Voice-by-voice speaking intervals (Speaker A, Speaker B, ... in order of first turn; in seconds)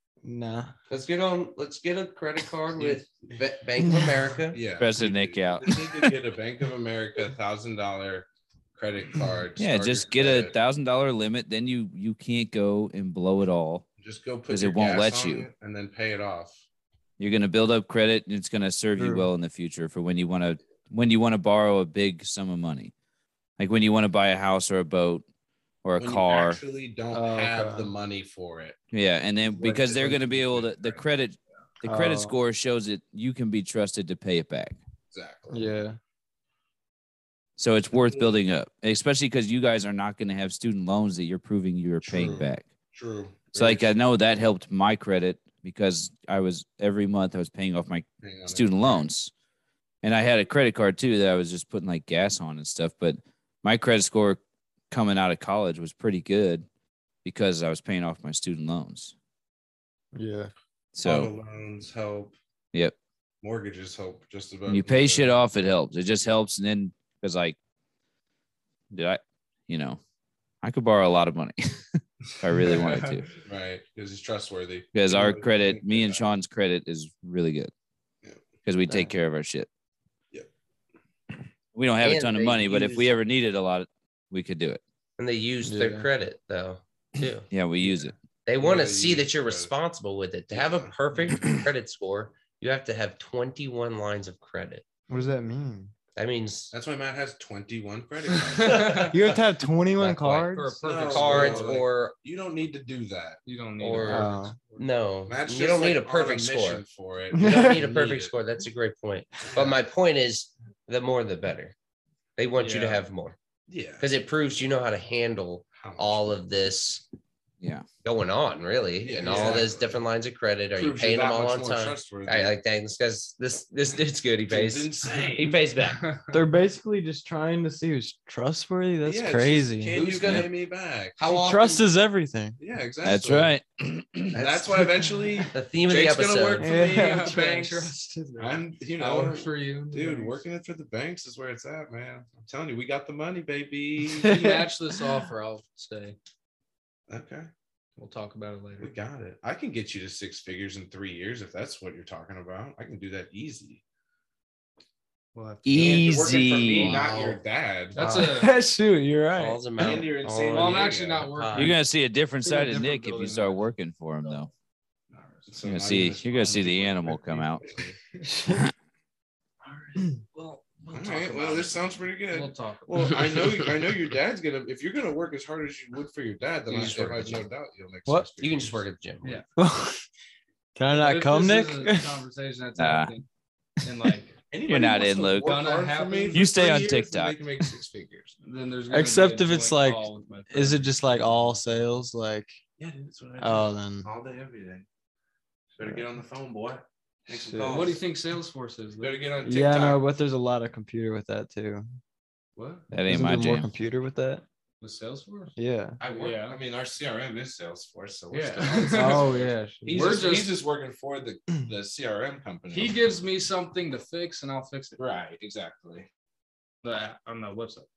Speaker A: 0.2-0.7, 3.8-4.1, 19.0-19.3, 27.1-27.9, 31.8-32.3, 35.5-36.0, 60.1-60.5, 85.6-86.1, 95.1-95.9, 98.7-100.8, 104.1-104.5, 107.3-107.8, 126.3-130.4, 131.2-132.6, 135.1-135.5, 136.6-138.6, 144.0-144.7, 158.1-159.6, 168.2-168.7, 179.6-180.0, 180.7-182.2, 188.9-192.6, 193.4-194.1, 197.3-197.9, 199.4-201.9, 203.0-204.4, 205.6-206.0, 208.9-210.3
Speaker B: 0.9-4.6, 82.0-83.1, 85.2-87.5, 88.5-94.8, 96.2-96.7, 101.1-102.1, 103.8-106.8, 107.4-111.7, 112.4-113.4, 114.0-117.0, 118.0-126.0, 129.9-130.5, 131.2-131.9, 135.5-136.8, 156.6-157.4, 157.9-158.3, 159.4-161.8, 170.8-171.7, 176.7-177.5, 178.4-179.4
Speaker C: 2.8-3.4, 4.5-10.6, 14.0-16.6, 26.0-28.8, 29.5-31.1, 35.1-35.7, 37.9-38.3, 42.0-43.9, 48.2-49.1, 61.0-62.4, 63.4-65.4, 73.4-76.3, 88.6-89.7, 90.5-90.9, 96.7-99.4, 100.8-103.4, 104.1-108.3, 109.5-109.8, 113.7-114.1, 115.8-116.2, 119.0-120.0, 120.7-122.5, 124.5-125.6, 129.1-131.2, 132.6-133.5, 134.3-137.7, 138.4-144.4, 147.1-147.5, 148.8-153.8, 155.7-158.0, 159.8-161.3, 165.5-167.9, 170.9-178.8, 184.5-188.3, 192.8-194.9, 195.7-198.0, 199.0-200.0, 206.0-213.0, 215.0-216.1
Speaker D: 4.8-5.9, 9.6-13.9, 14.5-15.5, 17.2-22.9, 23.6-25.2, 25.8-26.6, 28.9-34.8, 37.6-42.7, 43.5-49.3, 50.0-56.7, 57.2-59.1, 60.9-61.3, 64.7-67.5, 68.9-70.0, 70.6-73.3, 74.9-77.7, 78.6-79.7, 81.7-84.8, 87.5-88.1, 133.0-134.6, 155.6-157.1, 161.5-164.5, 165.6-167.6, 182.8-183.1, 184.6-185.6, 186.3-187.4, 202.9-203.7
Speaker E: 72.7-73.2, 98.6-99.2, 100.0-101.7, 103.5-104.3, 112.6-113.0, 126.0-126.4, 136.8-138.0, 139.0-140.4, 144.2-146.2, 148.0-148.9, 155.3-157.3, 157.9-158.6, 160.5-161.8, 162.4-163.6, 165.1-165.5, 169.6-170.6, 172.3-173.3, 180.9-183.3, 183.8-184.4, 185.4-186.5, 188.4-191.6, 197.6-199.2, 202.6-202.8, 204.8-206.6, 208.3-210.6, 212.7-215.0, 216.8-217.9